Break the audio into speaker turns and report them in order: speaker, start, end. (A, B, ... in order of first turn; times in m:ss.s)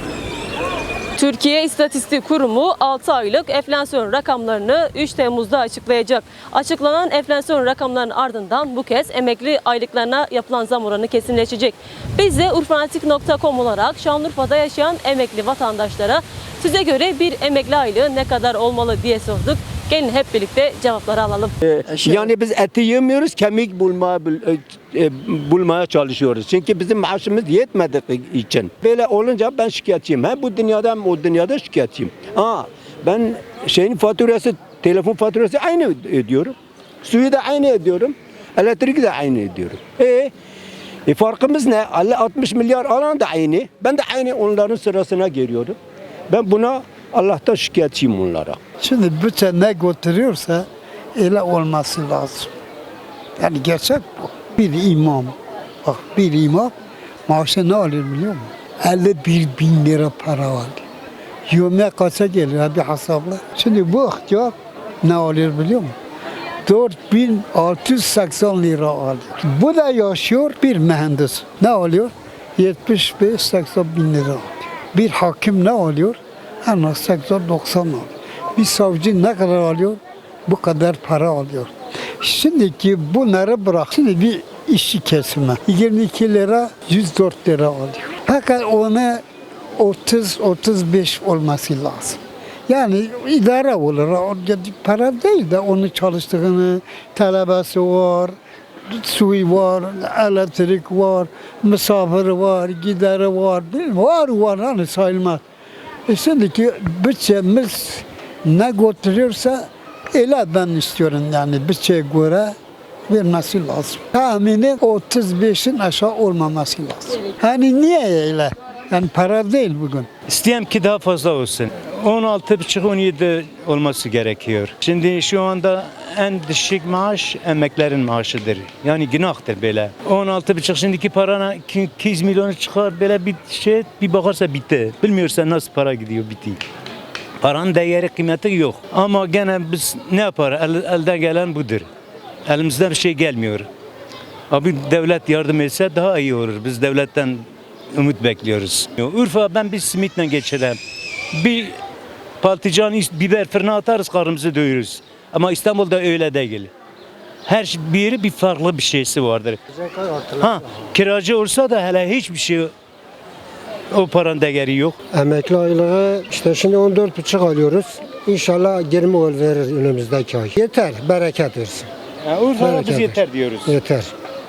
0:01.1-0:21.5 A
0:21.6-0:40.3 B
0:41.1-0:45.8 B
0:46.3-0:48.6 B
0:48.8-0:52.5 C
0:53.4-0:56.7 C
0:57.3-1:00.8 C
1:01.5-1:05.9 C
1:06.6-1:29.2 C
1:29.8-1:38.3 C
1:38.9-1:45.4 C
1:46.1-1:52.6 C
1:53.1-2:00.1 C
2:00.3-2:16.6 D
2:17.4-2:21.9 D
2:22.5-2:23.7 D
2:24.5-2:30.8 D
2:31.3-2:31.8 D
2:32.4-2:36.7 D
2:37.5-2:39.6 D
2:39.8-2:40.5 E
2:40.4-2:42.7 D
2:43.9-2:45.0 D
2:45.1-2:51.9 E
2:52.2-2:53.8 D
2:52.6-2:54.2 E